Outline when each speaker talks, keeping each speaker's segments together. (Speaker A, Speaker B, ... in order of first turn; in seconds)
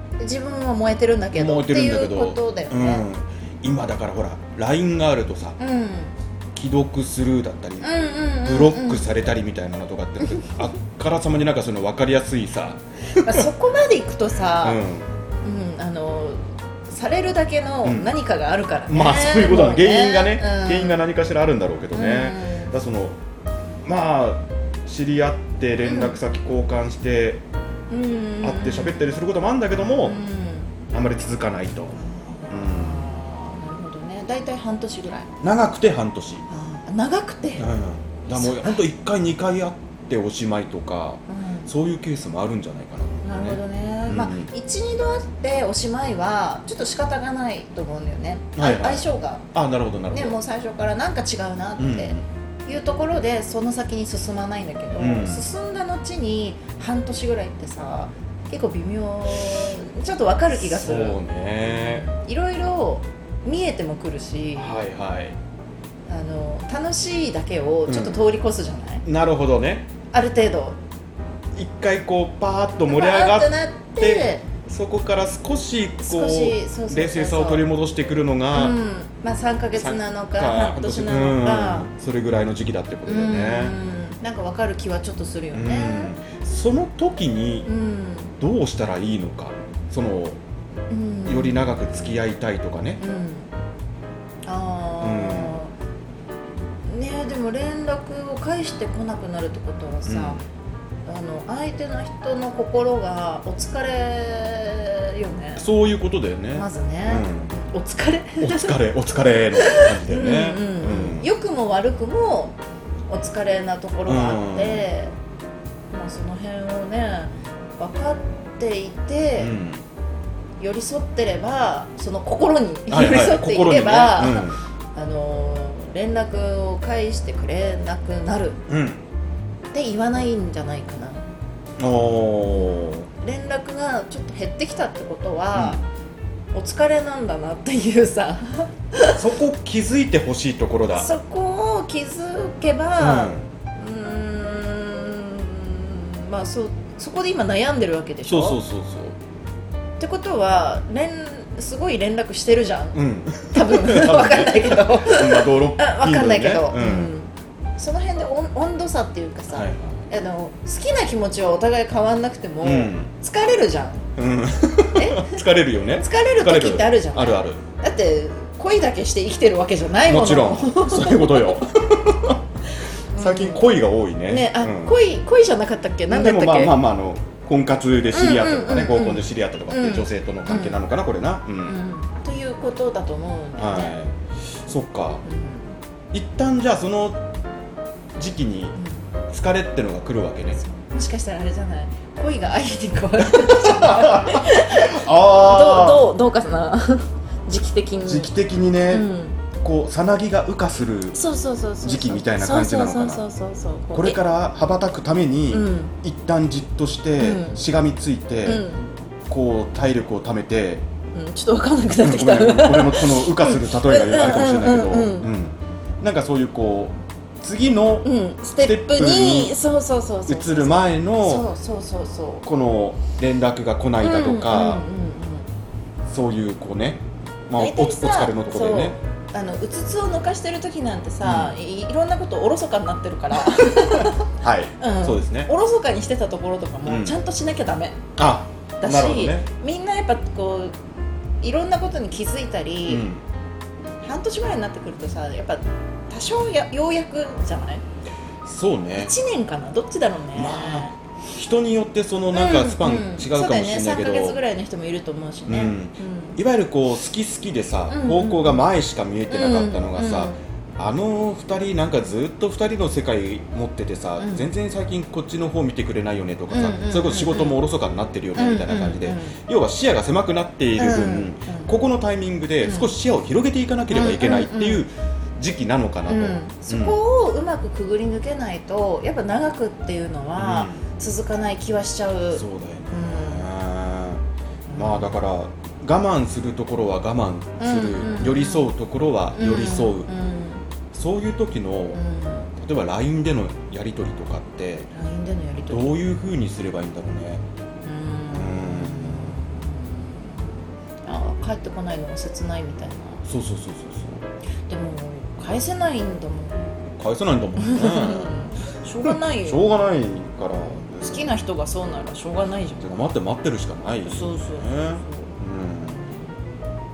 Speaker A: 0.2-3.0, 5.6-6.2, 7.8-9.1, 13.2-14.8, 15.4-21.0, 21.9-22.7, 25.8-26.2, 27.9-29.1, 29.9-30.7, 31.9-35.3, 36.5-37.7, 38.3-38.8, 41.3-41.7, 43.2-49.5, 50.1-64.8, 66.1-69.0, 70.1-70.8, 72.9-74.5, 76.0-77.7, 78.5-81.9, 83.0-86.1, 87.6-88.3, 90.9-92.0, 93.0-93.5, 94.4-95.7, 96.9-100.4, 101.0-105.7, 106.5-108.8, 109.5-112.6, 113.1-115.1, 115.9-119.5, 120.6-128.6, 129.7-131.3, 133.2-135.8, 136.5-139.2, 140.9-148.6, 150.0-164.1, 164.9-165.4, 166.0-171.6, 173.1-176.8, 178.1-180.8, 181.6-184.0, 185.2-185.8, 190.6-198.3, 198.9-199.4, 201.1-204.2, 205.5-205.9, 207.2-207.6, 208.4-208.9, 211.1-215.3, 218.0-222.5, 224.0-225.5, 227.6-238.0, 238.8-240.7, 241.4-243.1, 244.0-247.8, 248.9-250.9, 252.3-256.4, 257.9-258.7, 259.3-260.3, 264.2-264.5, 266.5-267.6, 268.4-269.4, 270.8-271.7, 272.6-272.9, 273.9-274.8, 276.1-283.5, 284.7-285.1, 287.6-288.7, 289.3-290.6, 291.9-292.5, 294.9-296.0, 297.8-300.4, 301.0-303.2, 304.7-306.8, 307.6-309.6, 311.0-312.9, 314.0-315.3, 315.9-316.3
Speaker B: 1.3-5.6, 6.5-7.9, 8.4-13.4, 14.6-15.1, 17.8-18.1, 18.9-23.2, 23.8-27.4, 28.4-30.2, 30.9-33.1, 35.4-36.5, 37.6-44.5, 48.5-50.4, 51.8-52.2, 55.0-55.5, 60.5-62.1, 64.6-65.4, 67.9-68.2, 69.0-69.9, 71.5-78.8, 79.7-83.8, 85.5-87.7, 88.4-90.4, 91.2-93.0, 95.0-95.5, 100.0-100.4, 105.5-107.5, 108.4-111.3, 114.0-114.9, 119.4-119.8, 122.9-124.6, 128.7-129.0, 131.8-133.1, 135.5-135.8, 139.1-141.1, 143.0-143.5, 148.3-149.2, 152.9-157.1, 159.5-160.1, 162.6-163.1, 164.2-167.6, 170.0-172.4, 173.1-175.0, 176.1-181.8, 183.6-185.2, 186.1-187.2, 188.1-188.8, 189.3-190.6, 193.2-196.1, 198.0-199.1, 199.6-201.2, 201.8-203.2, 203.9-208.7, 209.3-210.8, 212.0-219.6, 220.3-221.5, 222.4-224.8, 226.1-229.0, 231.2-231.6, 233.7-235.5, 236.8-237.2, 238.2-239.5, 242.8-243.2, 248.4-249.1, 250.3-254.4, 255.5-277.0, 280.4-280.9, 282.3-284.2, 284.7-290.1, 290.9-292.0, 292.6-294.9, 295.7-297.4, 298.3-299.4, 303.2-304.2, 307.0-311.3, 312.8-316.0